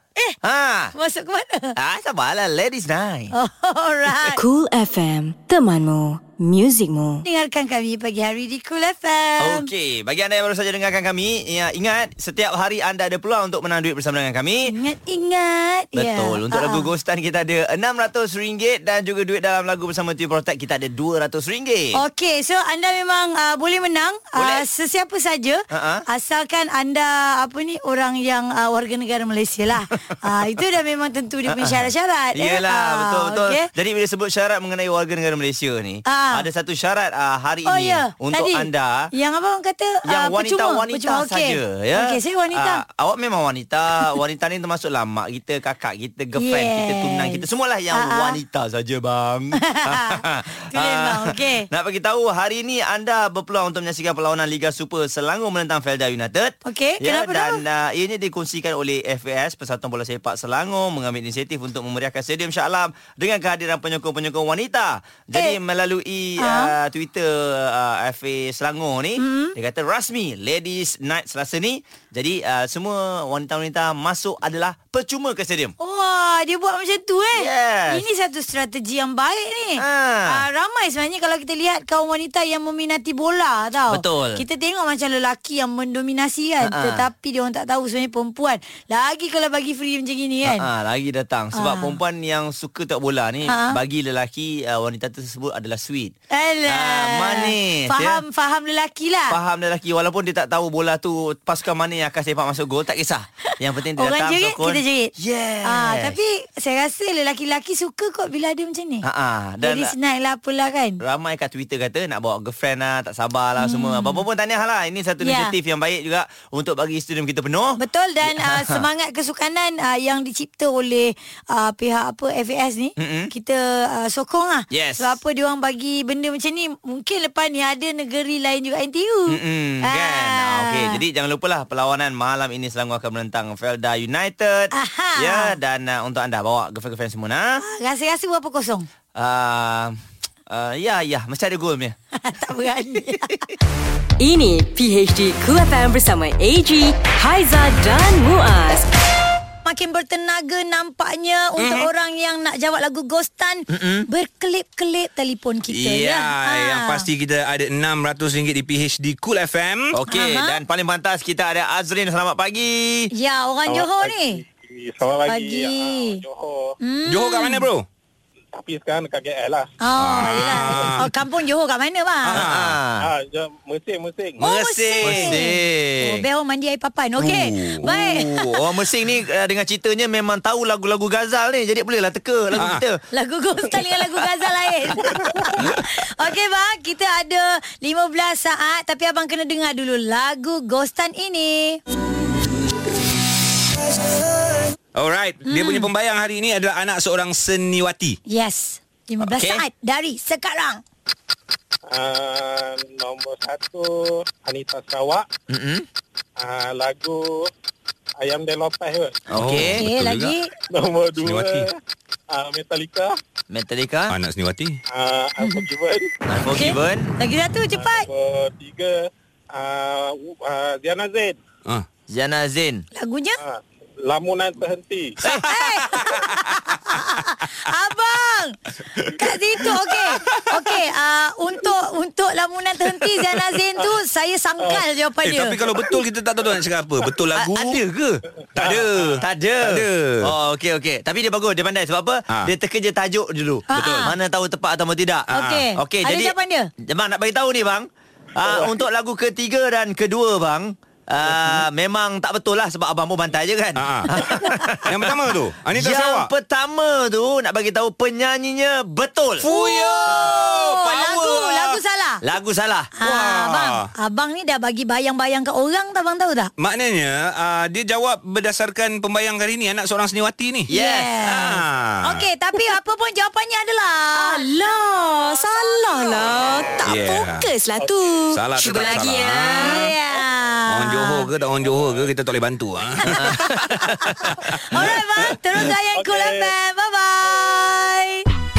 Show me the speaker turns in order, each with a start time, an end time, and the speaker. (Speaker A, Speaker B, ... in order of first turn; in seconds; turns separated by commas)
Speaker A: 0.4-0.9, Speaker B: 0.9-1.8, Speaker A: 1.8-3.3, Speaker B: 3.3-4.4, Speaker C: 4.3-7.2, Speaker B: 7.2-9.7, Speaker A: 9.4-14.7, Speaker B: 14.7-16.9, Speaker A: 15.9-22.0, Speaker B: 21.9-33.7, Speaker A: 24.4-24.6, Speaker A: 25.7-26.0, Speaker A: 31.5-39.1, Speaker B: 36.1-36.5, Speaker B: 37.7-42.8, Speaker A: 40.0-75.7, Speaker B: 46.4-48.4, Speaker B: 49.6-50.1, Speaker B: 50.7-51.7, Speaker B: 56.6-57.6, Speaker B: 66.4-66.7, Speaker B: 69.2-69.5, Speaker B: 75.8-90.7, Speaker A: 77.3-78.0, Speaker A: 79.8-80.5, Speaker A: 83.9-84.4, Speaker A: 86.6-87.0, Speaker A: 90.4-96.1, Speaker B: 91.5-92.0, Speaker B: 93.5-93.8, Speaker B: 96.3-99.4, Speaker A: 96.7-98.2, Speaker A: 99.3-106.2, Speaker B: 104.0-109.0, Speaker A: 109.0-109.9, Speaker B: 109.6-111.0, Speaker A: 111.0-118.8, Speaker B: 113.6-114.2, Speaker B: 115.2-115.5, Speaker B: 117.8-131.0, Speaker A: 123.0-123.3, Speaker A: 124.7-125.2, Speaker A: 129.3-137.6, Speaker B: 134.7-135.6, Speaker B: 137.6-138.9, Speaker A: 139.1-141.9, Speaker B: 142.1-143.5, Speaker C: 144.2-148.9, Speaker B: 149.6-157.1, Speaker D: 151.6-151.9, Speaker A: 153.7-154.1, Speaker D: 155.7-159.9, Speaker A: 159.9-163.1, Speaker B: 160.1-160.6, Speaker B: 163.1-164.4, Speaker E: 163.7-166.7, Speaker B: 165.3-166.2, Speaker B: 166.8-167.7, Speaker D: 167.1-167.8, Speaker E: 168.5-169.7, Speaker B: 169.8-172.4, Speaker D: 170.0-171.1, Speaker D: 172.3-172.8, Speaker A: 172.3-173.1, Speaker E: 173.0-174.4, Speaker B: 174.4-178.5, Speaker D: 174.4-175.4, Speaker A: 175.0-176.2, Speaker D: 177.2-178.3, Speaker A: 178.3-183.0, Speaker D: 182.5-182.8, Speaker B: 183.1-191.8, Speaker A: 193.9-194.7, Speaker D: 194.9-198.2, Speaker B: 195.4-195.9, Speaker B: 198.3-200.8, Speaker A: 199.2-199.6, Speaker E: 201.9-205.2, Speaker A: 205.5-205.9, Speaker E: 206.4-207.5, Speaker E: 208.2-209.2, Speaker A: 209.3-209.8, Speaker D: 209.3-210.3, Speaker B: 209.7-210.5, Speaker E: 210.7-211.7, Speaker D: 211.2-211.7, Speaker E: 212.3-213.1, Speaker A: 213.5-214.1, Speaker D: 214.1-214.8, Speaker E: 214.9-216.1, Speaker B: 215.4-215.7, Speaker A: 216.3-217.2, Speaker B: 216.5-218.1, Speaker E: 217.7-221.4, Speaker A: 222.1-222.8, Speaker B: 222.9-223.4, Speaker E: 223.4-225.2, Speaker B: 225.4-228.6, Speaker B: 229.1-235.6, Speaker D: 235.2-237.8, Speaker A: 237.3-238.2, Speaker D: 238.5-240.3, Speaker E: 238.6-239.2, Speaker A: 239.2-255.1, Speaker B: 243.7-244.2, Speaker D: 243.7-244.1, Speaker B: 245.3-246.7, Speaker D: 245.3-245.6, Speaker E: 248.4-248.7, Speaker D: 251.2-251.7, Speaker D: 253.8-254.2, Speaker D: 254.8-256.3, Speaker A: 255.7-259.5, Speaker D: 259.4-260.6, Speaker B: 259.5-262.2, Speaker A: 260.1-262.9, Speaker B: 263.0-266.5, Speaker D: 263.0-263.9, Speaker D: 266.6-270.7, Speaker A: 270.7-271.1, Speaker B: 270.7-277.1, Speaker D: 271.2-272.3, Speaker C: 274.1-279.8, Speaker E: 276.4-277.0, Speaker D: 276.8-277.5, Speaker D: 278.3-279.9, Speaker B: 278.6-281.3, Speaker D: 280.7-283.6, Speaker A: 283.0-284.5, Speaker B: 283.0-288.2, Speaker D: 284.5-285.2, Speaker E: 285.6-286.5